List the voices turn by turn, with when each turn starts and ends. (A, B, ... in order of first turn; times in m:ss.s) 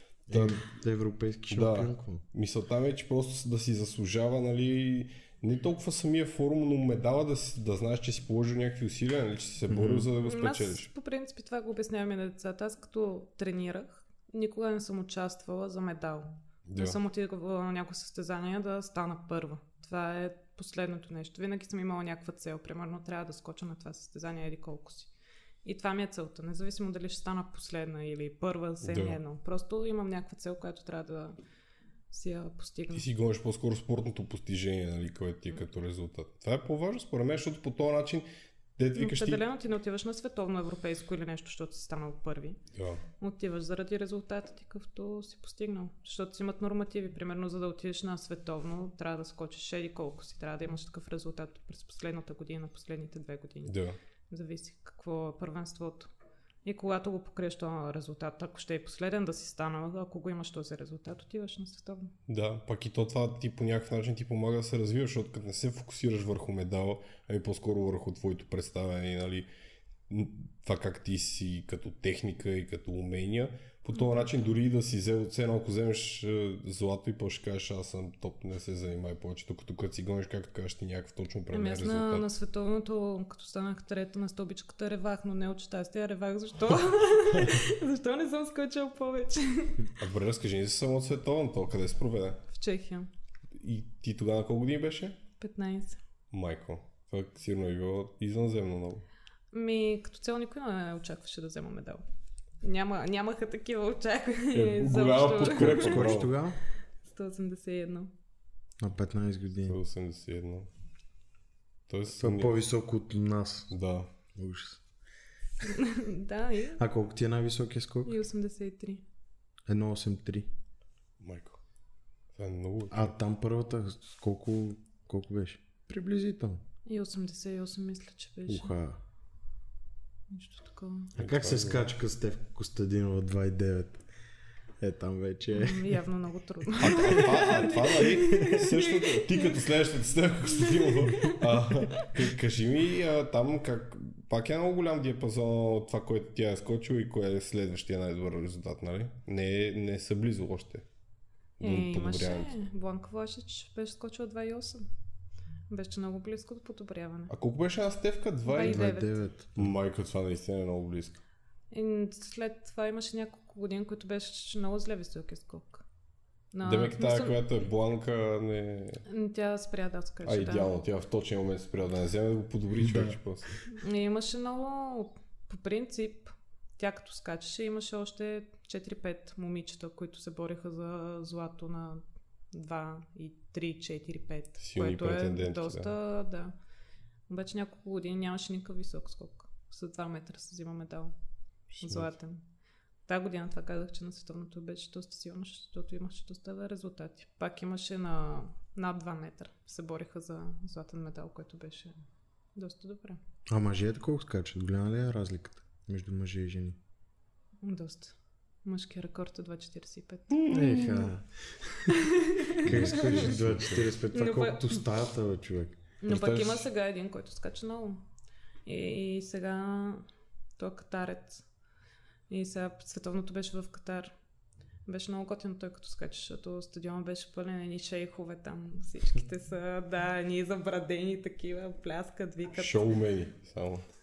0:00.3-0:02.2 A
0:00.3-0:00.6 B
0:01.5-0:10.9 B
0:09.7-0:10.1 A
0:10.2-0:25.1 C
0:16.7-0:17.0 B
0:25.6-0:31.4 C
0:28.8-0:29.2 B
0:32.1-0:33.0 C
0:32.9-0:39.4 B
0:38.9-0:42.6 C
0:42.7-0:43.0 B
0:43.2-0:53.8 C
0:53.6-0:54.0 B
0:54.3-0:56.1 C
0:56.6-1:02.1 C
1:02.3-1:09.5 B
1:10.1-1:22.3 B
1:14.0-1:14.2 C
1:21.5-1:29.9 C
1:30.0-1:32.4 B
1:32.5-1:33.1 C
1:33.6-1:35.2 B
1:35.4-1:36.0 C
1:36.3-1:39.0 B
1:39.5-1:42.0 C
1:42.6-1:46.0 C
1:44.5-1:46.3 B
1:45.4-1:46.6 A
1:47.0-1:48.1 C
1:48.8-1:49.8 A
1:49.6-1:50.7 B
1:51.9-1:52.6 B
1:52.2-1:53.7 A
1:53.7-1:54.1 B
1:54.3-1:54.8 A
1:55.6-1:56.8 C
1:56.8-1:58.2 A
1:58.0-1:59.0 C
1:59.7-2:00.5 A
2:01.2-2:01.6 B
2:02.3-2:03.1 B
2:02.9-2:06.6 A
2:06.8-2:08.7 C
2:08.5-2:09.0 A
2:10.3-2:11.1 C
2:11.2-2:11.8 B
2:11.2-2:14.0 A
2:14.8-2:16.0 A
2:15.5-2:19.6 C
2:16.8-2:30.8 B
2:20.5-2:22.1 C
2:31.6-2:32.5 B
2:31.6-2:34.9 C
2:35.7-2:37.3 C
2:37.3-2:38.9 B
2:38.4-2:39.2 C
2:38.6-2:39.7 A
2:39.6-2:41.2 B
2:41.7-2:45.8 C
2:46.5-2:47.4 C
2:46.6-2:49.0 B
2:49.0-2:50.7 C
2:50.2-2:53.6 B
2:52.8-2:53.2 A
2:53.7-3:06.5 C
3:04.6-3:05.9 B
3:07.3-3:11.1 C
3:11.7-3:12.1 B
3:11.8-3:12.4 C
3:13.1-3:21.9 C
3:22.5-3:23.2 C
3:23.5-3:26.8 A
3:27.6-3:30.4 C
3:30.3-3:31.1 B
3:30.5-3:32.0 A
3:31.9-3:33.0 C
3:32.6-3:33.9 B
3:32.6-3:35.8 A
3:34.1-3:34.8 C
3:36.0-3:38.0 C
3:36.1-3:36.6 B
3:38.6-3:40.0 C
3:40.6-3:41.4 C
3:42.3-3:44.1 C
3:44.9-3:52.9 C
3:52.5-3:53.8 B